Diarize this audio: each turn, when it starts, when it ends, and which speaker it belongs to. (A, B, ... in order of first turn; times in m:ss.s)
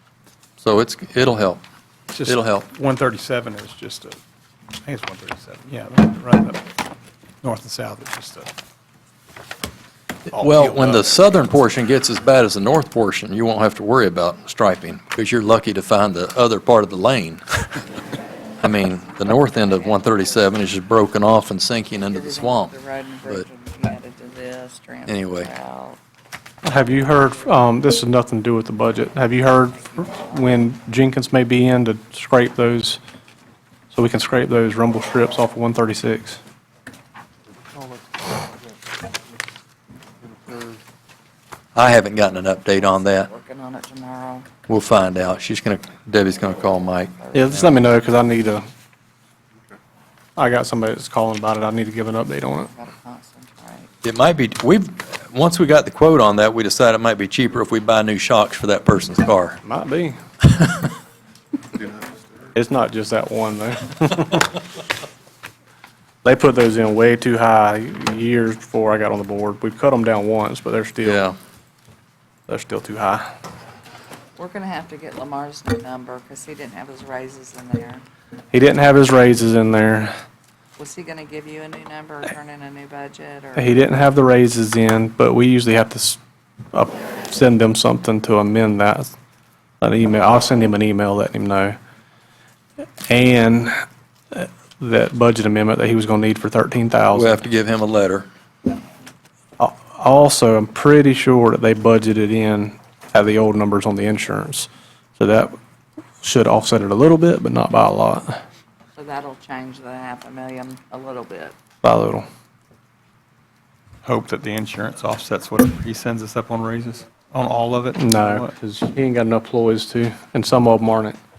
0:00.6-0:01.6 A
0:02.1-0:04.2 B
0:02.2-0:02.7 A
0:04.8-0:06.6 B
0:07.4-0:08.5 B
0:10.3-0:17.6 A
0:10.3-0:11.2 B
0:18.6-0:22.7 A
0:18.8-0:20.7 C
0:22.0-0:26.0 C
0:25.1-0:25.5 A
0:26.6-0:33.0 D
0:29.7-0:30.7 C
0:33.9-0:36.4 D
0:41.8-0:43.3 A
0:42.7-0:44.5 C
0:44.7-0:47.7 A
0:47.2-0:47.9 C
0:47.3-0:48.6 D
0:50.4-0:52.7 D
0:52.7-0:53.9 C
0:54.0-0:59.6 A
0:59.6-1:00.2 D
1:02.6-1:04.6 D
1:06.2-1:11.3 D
1:11.0-1:11.4 A
1:12.5-1:13.3 D
1:14.4-1:18.0 C
1:18.5-1:20.1 D
1:20.8-1:23.7 C
1:23.6-1:26.2 D
1:26.7-1:29.1 D
1:29.8-1:31.8 D
1:33.1-1:33.7 D
1:34.3-1:37.4 D
1:37.1-1:38.3 A
1:39.6-1:45.6 D
1:46.2-1:48.4 D
1:49.0-1:51.6 C
1:51.8-1:52.3 D
1:54.0-1:58.5 B
1:58.0-2:01.2 D